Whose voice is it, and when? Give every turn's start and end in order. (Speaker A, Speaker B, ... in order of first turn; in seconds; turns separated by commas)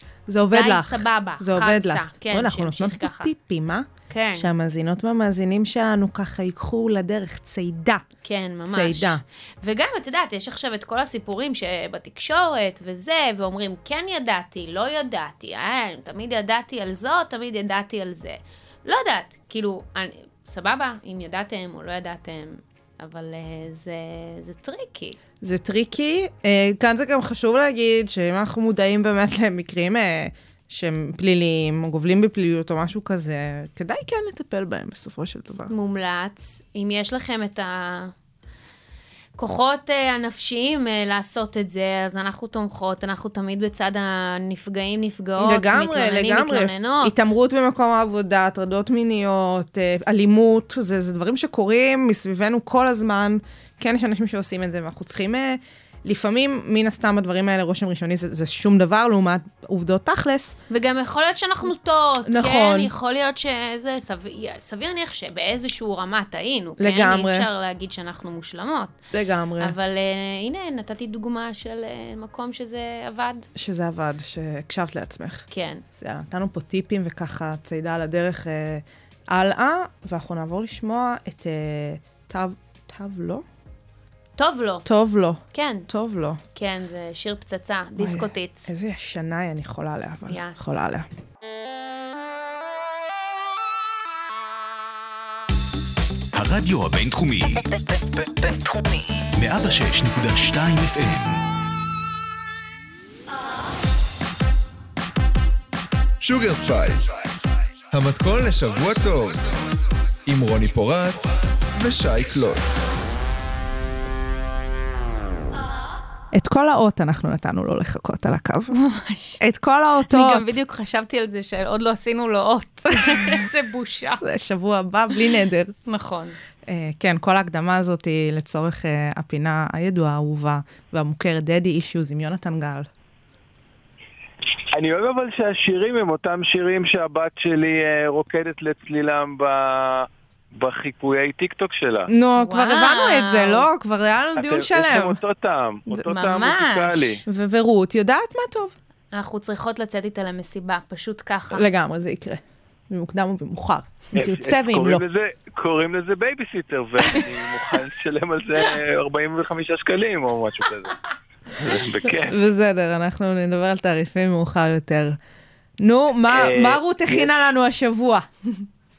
Speaker A: 0.3-8.1, Speaker B: 0.5-3.3, Speaker B: 4.1-4.5, Speaker B: 8.2-25.2, Speaker A: 8.7-9.2, Speaker A: 25.4-35.7, Speaker B: 35.7-38.1, Speaker B: 39.4-47.3, Speaker A: 45.4-60.6, Speaker B: 60.7-69.0, Speaker A: 62.2-62.9, Speaker A: 66.8-67.5, Speaker A: 69.1-69.7, Speaker B: 69.6-73.5, Speaker A: 73.5-83.4, Speaker B: 75.5-75.8, Speaker B: 84.4-84.9, Speaker A: 84.8-86.4, Speaker B: 85.5-85.9, Speaker B: 86.5-88.7, Speaker A: 88.0-91.1, Speaker B: 90.3-90.8, Speaker C: 96.3-101.4, Speaker D: 106.2-107.2, Speaker D: 107.9-109.5, Speaker D: 110.2-112.7, Speaker A: 116.3-118.7, Speaker B: 118.7-119.4, Speaker A: 119.4-120.5, Speaker B: 120.1-124.2, Speaker A: 124.2-125.7, Speaker B: 125.9-126.4, Speaker A: 126.7-132.9, Speaker E: 134.7-142.1, Speaker A: 142.1-145.2, Speaker B: 142.4-143.7, Speaker E: 144.4-147.2, Speaker B: 146.1-147.2, Speaker A: 147.3-148.7, Speaker B: 149.1-151.7, Speaker A: 151.5-155.0, Speaker E: 154.1-161.0, Speaker E: 161.5-162.4, Speaker A: 162.1-165.2, Speaker A: 165.8-168.3, Speaker E: 166.3-167.3